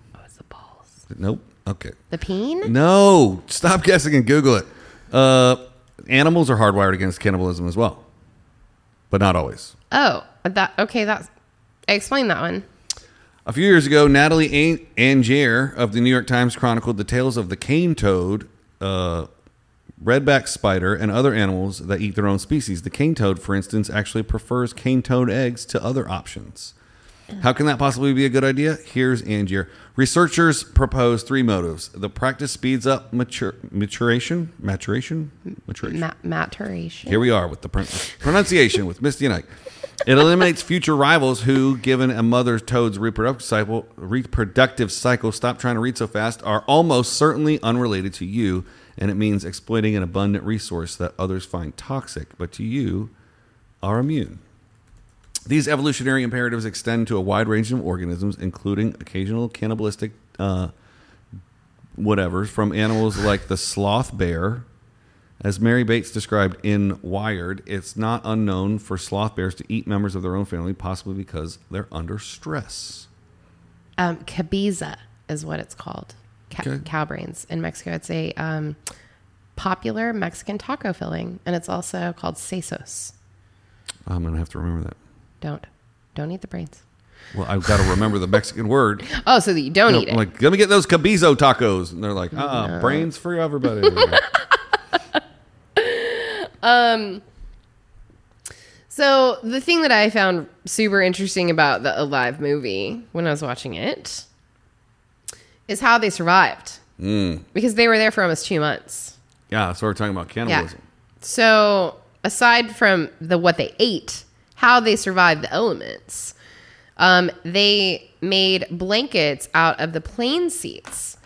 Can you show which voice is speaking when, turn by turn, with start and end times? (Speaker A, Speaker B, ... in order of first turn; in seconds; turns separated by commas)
Speaker A: 1.1-1.9, Speaker B: 2.1-2.7, Speaker A: 2.6-8.0, Speaker A: 9.1-9.7, Speaker B: 9.9-11.3, Speaker B: 11.9-12.7, Speaker A: 13.5-19.3, Speaker A: 20.0-26.7, Speaker A: 27.4-36.0, Speaker B: 35.9-37.1, Speaker A: 37.1-39.5, Speaker A: 40.0-53.1, Speaker A: 53.8-54.4, Speaker A: 55.5-60.7, Speaker A: 62.0-64.7, Speaker A: 65.4-73.1, Speaker B: 74.0-78.8, Speaker A: 76.6-76.9, Speaker B: 79.6-83.1, Speaker A: 84.1-85.0, Speaker B: 85.4-86.8, Speaker A: 87.3-89.1, Speaker B: 89.1-90.2, Speaker A: 89.9-94.2, Speaker B: 92.4-92.9, Speaker B: 95.8-97.2, Speaker B: 98.9-104.2, Speaker B: 105.7-106.7, Speaker A: 107.0-107.5, Speaker B: 107.5-109.0, Speaker A: 109.5-110.8, Speaker B: 111.2-116.3, Speaker B: 117.0-121.0